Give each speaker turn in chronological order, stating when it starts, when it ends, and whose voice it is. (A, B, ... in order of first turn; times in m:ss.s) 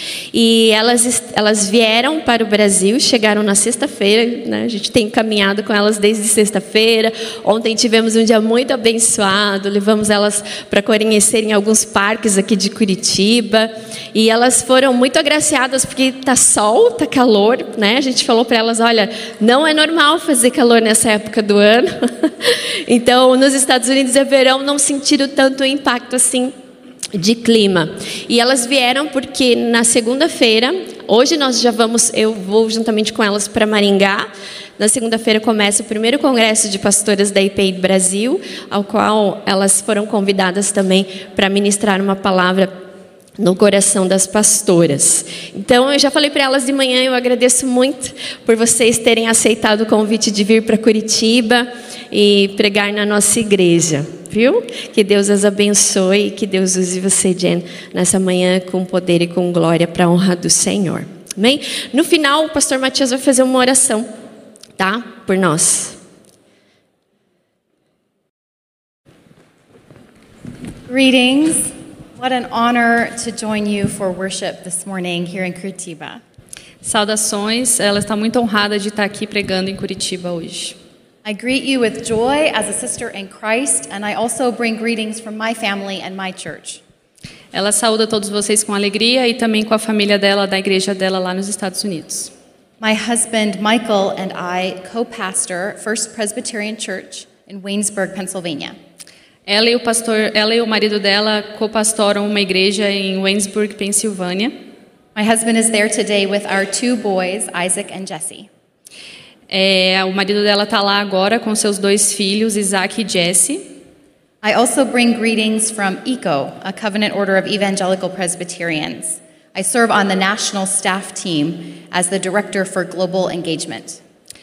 0:00.3-0:26.5 A
0:27.1-0:42.8 A
0:43.4-1:04.1 A
1:04.8-1:06.0 A
1:10.9-1:16.2 B
1:16.8-1:20.8 C
1:21.2-1:26.8 B
1:27.5-1:32.3 C
1:32.8-1:38.7 B
1:39.4-1:44.5 C
1:45.1-1:48.5 B
1:49.5-1:53.6 C
1:54.4-2:04.0 B